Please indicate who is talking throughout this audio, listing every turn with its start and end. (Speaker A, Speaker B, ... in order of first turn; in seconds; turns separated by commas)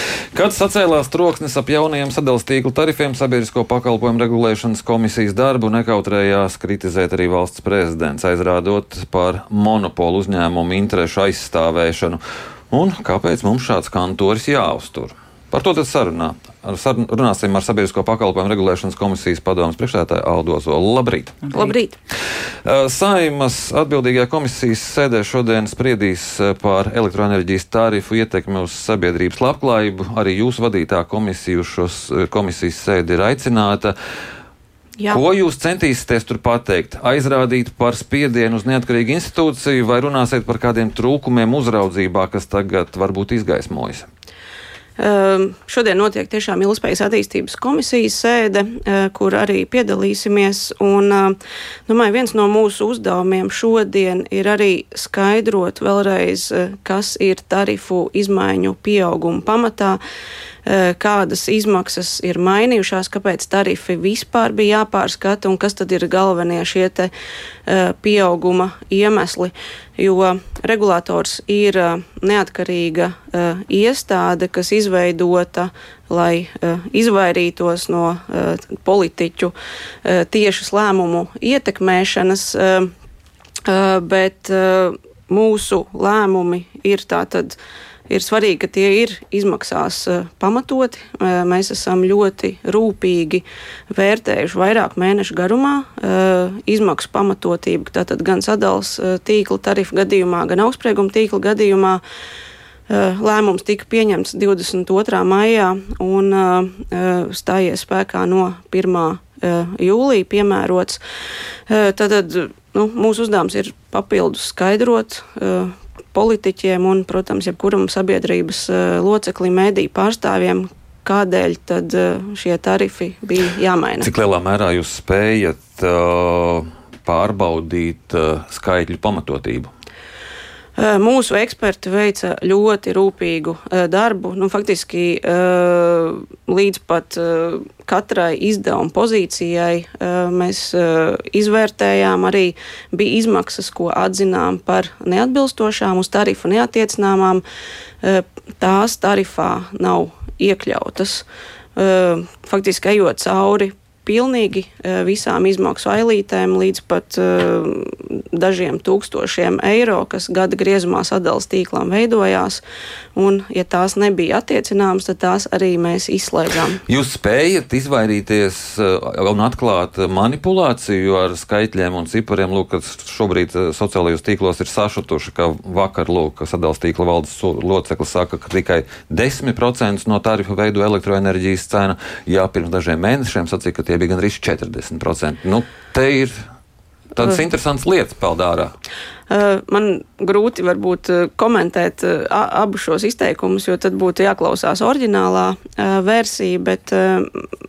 Speaker A: 0.3-12.2, Speaker A: 12.7-21.5, Speaker B: 21.5-21.9, Speaker A: 22.6-33.9, Speaker A: 35.1-44.1, Speaker B: 45.0-51.4, Speaker B: 51.9-60.0, Speaker B: 60.6-67.1, Speaker B: 67.7-82.9, Speaker B: 83.7-87.6, Speaker B: 88.1-102.0, Speaker B: 102.9-111.0, Speaker B: 111.7-124.1, Speaker A: 124.0-129.7, Speaker B: 130.8-147.4, Speaker B: 148.0-151.2, Speaker B: 151.8-162.6, Speaker B: 163.2-166.8, Speaker A: 166.9-186.3, Speaker A: 187.1-188.7, Speaker B: 189.3-197.4